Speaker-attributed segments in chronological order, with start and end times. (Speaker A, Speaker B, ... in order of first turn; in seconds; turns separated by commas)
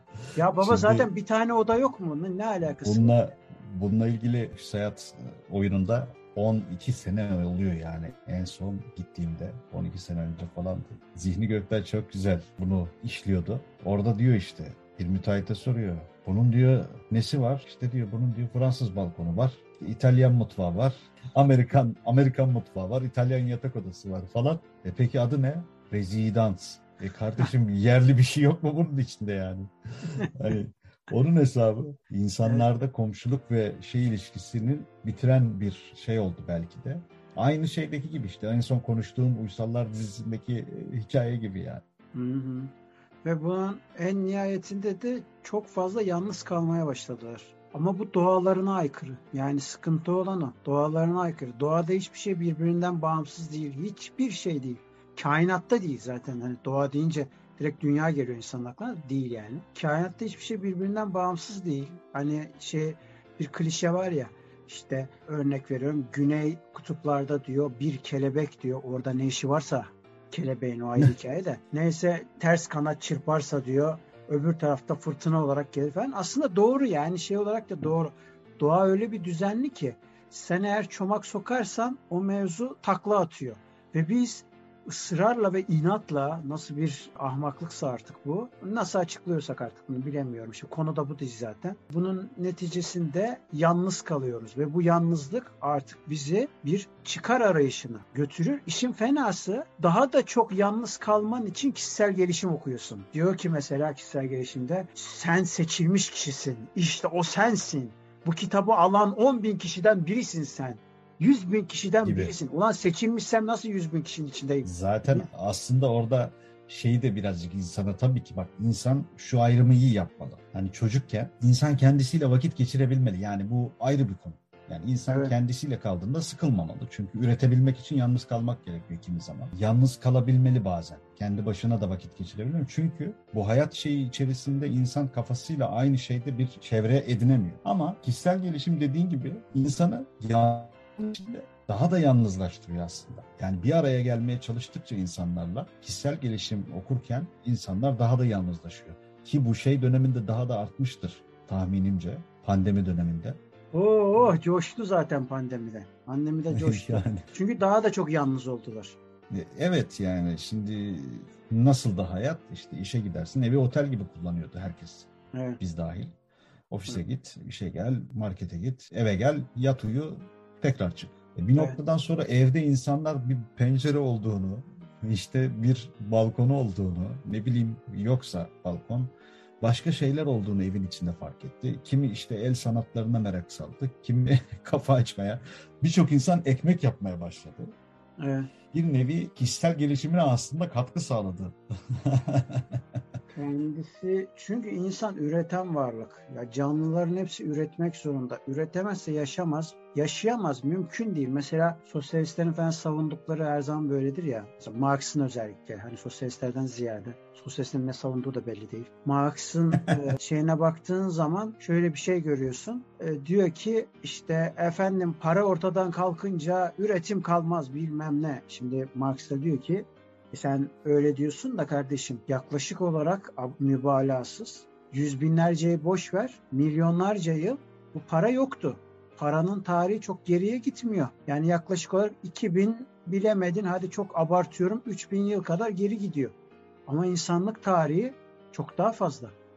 Speaker A: 0.4-3.2, Speaker B: 0.6-1.1, Speaker B: 2.7-41.8, Speaker A: 42.1-42.7, Speaker A: 43.2-115.3, Speaker B: 112.0-112.3, Speaker B: 114.7-153.4, Speaker A: 153.7-159.0, Speaker B: 156.5-157.3, Speaker B: 159.3-165.1, Speaker A: 165.3-165.6, Speaker B: 165.6-166.1, Speaker B: 166.7-187.7, Speaker A: 188.2-188.5, Speaker B: 188.7-192.8, Speaker A: 193.3-236.3, Speaker A: 236.9-239.3